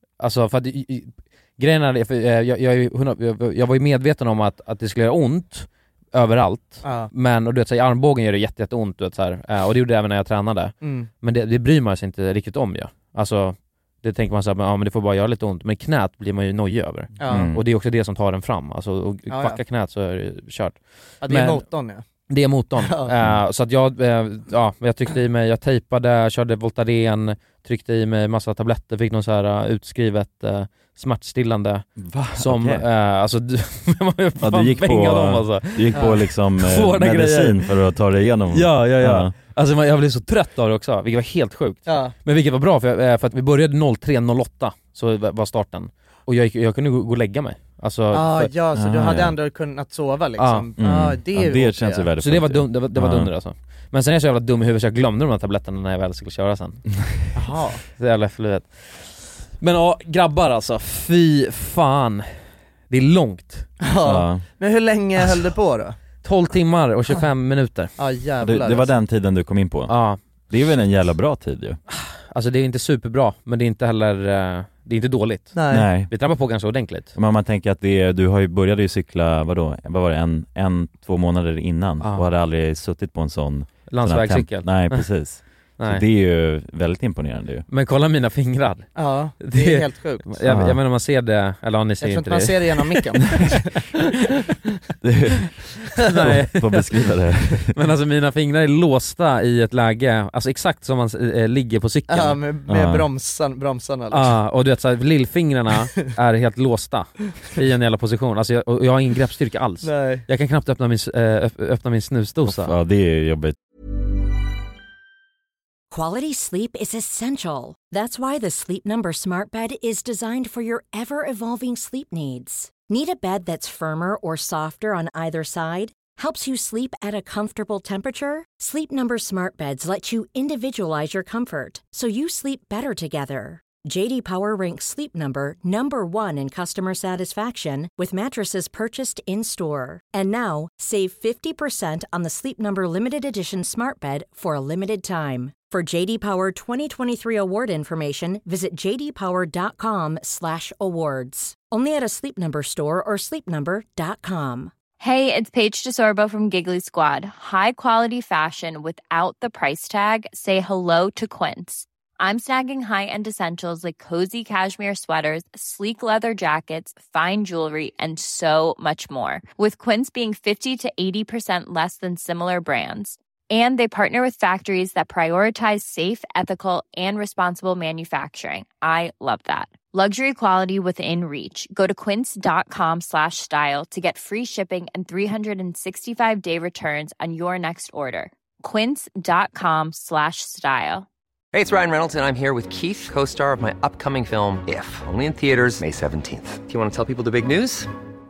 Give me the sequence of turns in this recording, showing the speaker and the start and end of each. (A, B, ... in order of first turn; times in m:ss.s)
0:00.2-0:21.6 A
0:06.8-0:07.1 B
0:10.8-0:11.1 B
0:17.2-0:17.5 B
0:17.3-0:17.6 C
0:19.3-0:19.6 B
0:21.2-0:22.0 B
0:22.3-0:37.7 A
0:22.9-0:23.1 B
0:32.0-0:32.8 C
0:34.4-0:39.3 C
0:35.9-0:36.2 B
0:38.5-0:48.5 A
0:41.9-0:42.1 B
0:48.1-0:52.1 B
0:48.7-0:49.4 C
0:50.4-0:50.7 A
0:50.8-0:53.3 C
0:52.2-0:56.8 A
0:57.4-0:57.8 B
0:58.0-1:02.3 A
1:02.9-1:03.7 A
1:03.8-1:06.0 B
1:04.0-1:04.4 C
1:06.2-1:07.9 A
1:08.0-1:08.9 B
1:08.4-1:09.9 C
1:09.9-1:10.2 A
1:10.5-1:11.8 C
1:11.9-1:17.1 A
1:15.5-1:15.9 B
1:15.7-1:16.1 C
1:17.1-1:27.7 C
1:23.9-1:25.1 A
1:25.8-1:26.0 A
1:27.7-1:33.2 A
1:29.0-1:30.4 B
1:30.5-1:30.8 C
1:32.0-1:33.7 B
1:35.0-1:37.7 C
1:36.0-1:36.9 A
1:37.7-1:42.4 A
1:42.1-1:44.4 B
1:42.7-1:43.1 C
1:44.1-1:52.8 A
1:49.8-1:50.3 B
1:52.5-1:53.6 C
1:55.9-2:34.7 D
2:35.0-3:11.1 E
3:11.5-3:17.9 F